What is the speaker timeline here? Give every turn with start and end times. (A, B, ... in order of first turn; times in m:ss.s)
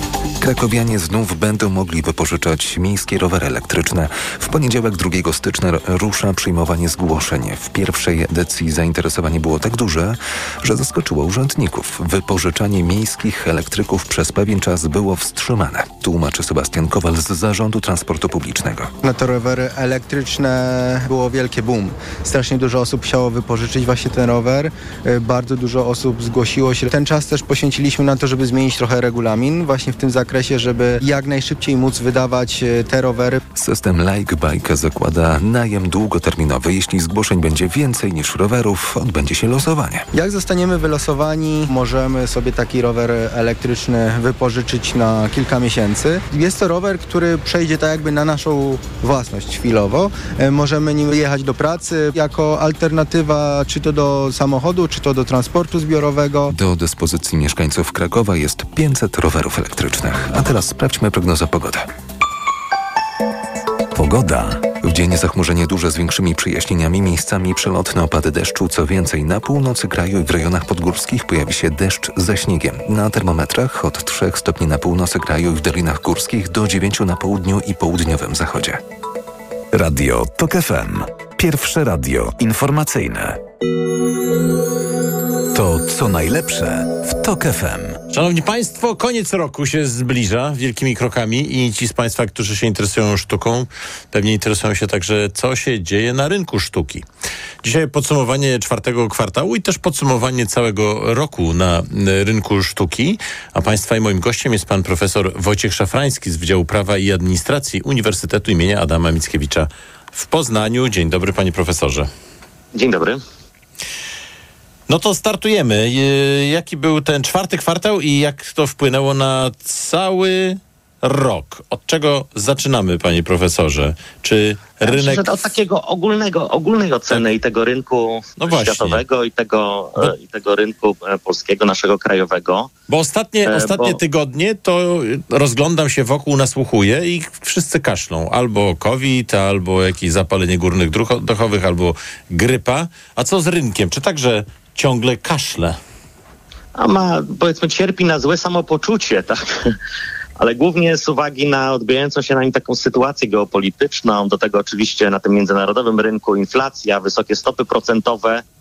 0:00.4-0:18.9 A
0:19.0-0:33.4 B
0:33.5-0:40.1 A
0:40.1-0:56.5 B
0:56.5-1:01.9 A
1:04.0-1:18.8 A
1:19.7-1:23.4 C
1:25.5-1:28.0 C
1:28.1-1:37.0 D
1:37.6-1:52.1 D
1:52.7-1:53.2 E
1:54.9-2:05.5 D
2:04.8-2:12.7 E
2:08.4-2:09.0 D
2:12.9-2:25.8 D
2:13.5-2:14.0 E
2:26.8-2:29.7 E
2:30.4-2:38.4 E